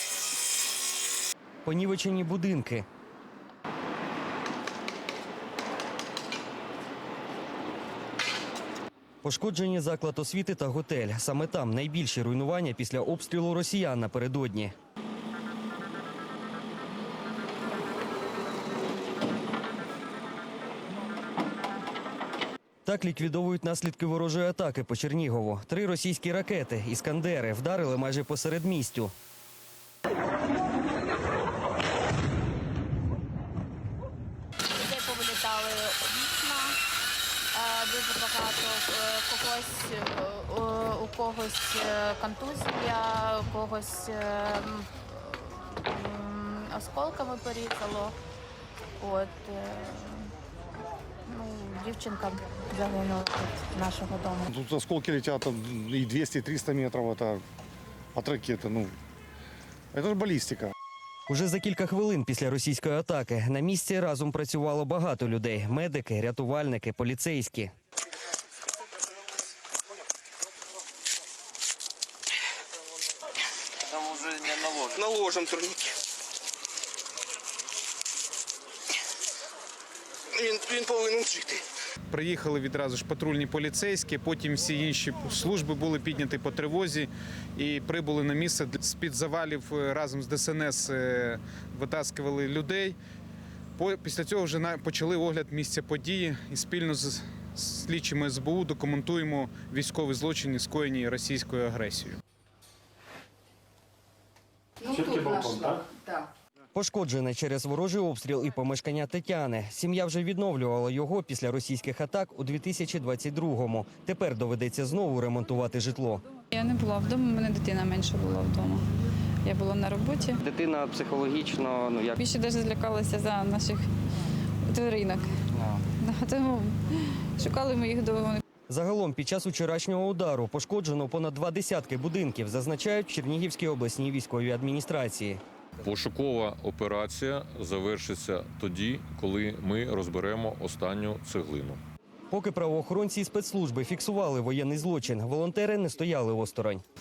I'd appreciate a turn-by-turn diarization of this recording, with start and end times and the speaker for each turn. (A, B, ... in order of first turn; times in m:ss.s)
0:01.6-0:02.9 A
0:09.2-0:14.7 A
0:22.9-0:29.1 A
0:34.7-0:36.8 B
0:37.5-0:48.2 B
0:49.0-0:50.3 B
0:51.3-0:54.4 B
0:54.5-0:57.4 C
0:58.2-0:59.0 C
0:59.9-1:00.7 C
1:01.3-1:07.7 A
1:15.0-1:15.9 D
1:20.4-1:21.6 D
1:22.1-1:33.0 E
1:33.8-1:42.2 E
1:44.9-1:45.8 F
1:45.0-1:45.5 B
1:46.8-1:56.2 A
1:56.5-1:58.8 G
1:59.4-2:00.4 G
2:00.4-2:02.2 A
2:02.2-2:03.9 G
2:04.7-2:05.3 G
2:06.0-2:06.8 G
2:07.4-2:08.4 G
2:08.7-2:15.4 A
2:15.8-2:21.8 F
2:22.3-2:26.8 A